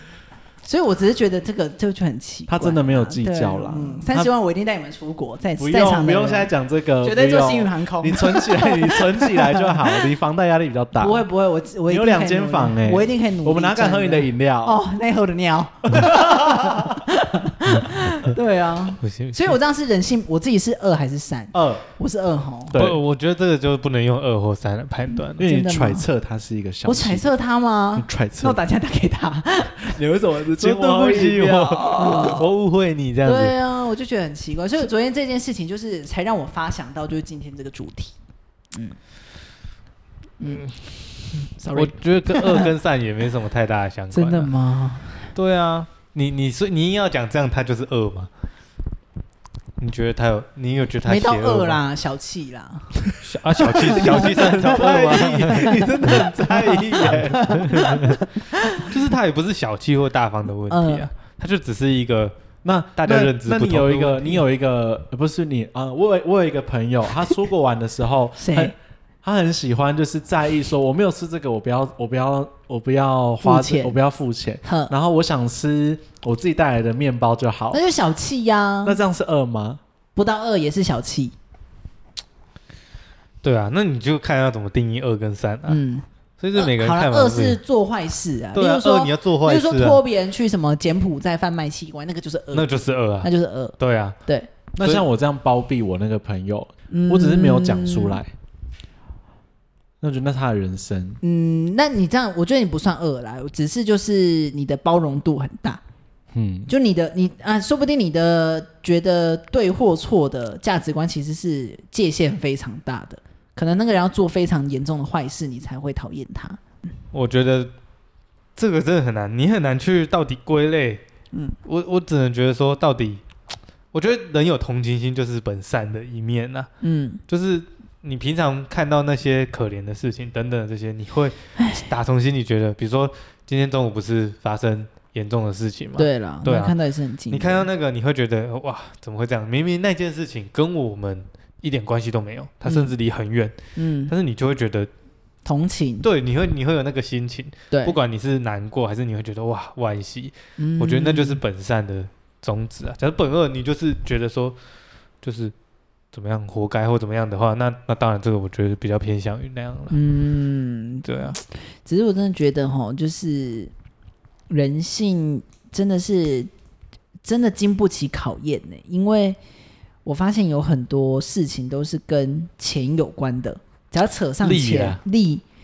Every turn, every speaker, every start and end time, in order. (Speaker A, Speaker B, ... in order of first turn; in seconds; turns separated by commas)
Speaker A: 0.6-10.1, Speaker B: 2.5-4.3, Speaker B: 5.6-11.3, Speaker A: 11.0-22.8, Speaker B: 11.9-14.8, Speaker B: 15.9-17.0, Speaker C: 19.0-19.6, Speaker B: 21.5-21.8, Speaker B: 22.7-23.0, Speaker C: 22.7-25.5, Speaker A: 25.2-26.1, Speaker B: 25.4-27.3, Speaker A: 26.9-30.0, Speaker B: 28.0-28.6, Speaker B: 29.9-32.4, Speaker C: 30.6-33.5, Speaker A: 32.0-32.4, Speaker A: 33.2-38.2, Speaker A: 40.4-40.7, Speaker C: 40.5-44.5, Speaker A: 41.6-42.7, Speaker A: 44.1-45.3, Speaker C: 45.4-48.3, Speaker C: 49.8-51.8, Speaker A: 51.0-58.9, Speaker C: 53.2-58.2, Speaker B: 53.7-57.9, Speaker C: 58.8-62.4, Speaker A: 60.7-61.1, Speaker B: 62.6-77.8, Speaker C: 63.0-64.4, Speaker A: 68.4-68.7, Speaker A: 73.4-74.0, Speaker A: 74.6-74.9, Speaker A: 77.7-79.0, Speaker B: 78.8-79.8, Speaker A: 80.2-81.3, Speaker C: 83.4-85.8, Speaker A: 85.7-93.8, Speaker C: 86.4-87.6, Speaker C: 88.5-90.0, Speaker C: 92.5-94.2, Speaker B: 94.8-98.3, Speaker A: 96.9-98.2, Speaker B: 100.0-101.2, Speaker A: 101.2-105.8, Speaker B: 106.3-106.7, Speaker A: 106.7-116.6, Speaker C: 117.1-117.7, Speaker C: 118.6-121.0, Speaker C: 121.7-123.2, Speaker C: 123.9-126.7, Speaker A: 126.8-127.2, Speaker C: 127.3-136.8, Speaker A: 131.6-131.8, Speaker A: 136.0-137.7, Speaker C: 137.3-143.6, Speaker A: 142.7-142.9, Speaker A: 143.8-144.1, Speaker C: 144.1-144.9, Speaker A: 145.4-146.1, Speaker C: 146.0-154.6, Speaker A: 147.7-148.0, Speaker A: 150.6-151.4, Speaker C: 155.2-155.5, Speaker C: 156.1-159.9, Speaker A: 159.9-163.7, Speaker C: 161.1-161.4, Speaker A: 164.5-166.5, Speaker A: 167.2-169.4, Speaker A: 170.1-175.4, Speaker C: 174.4-175.0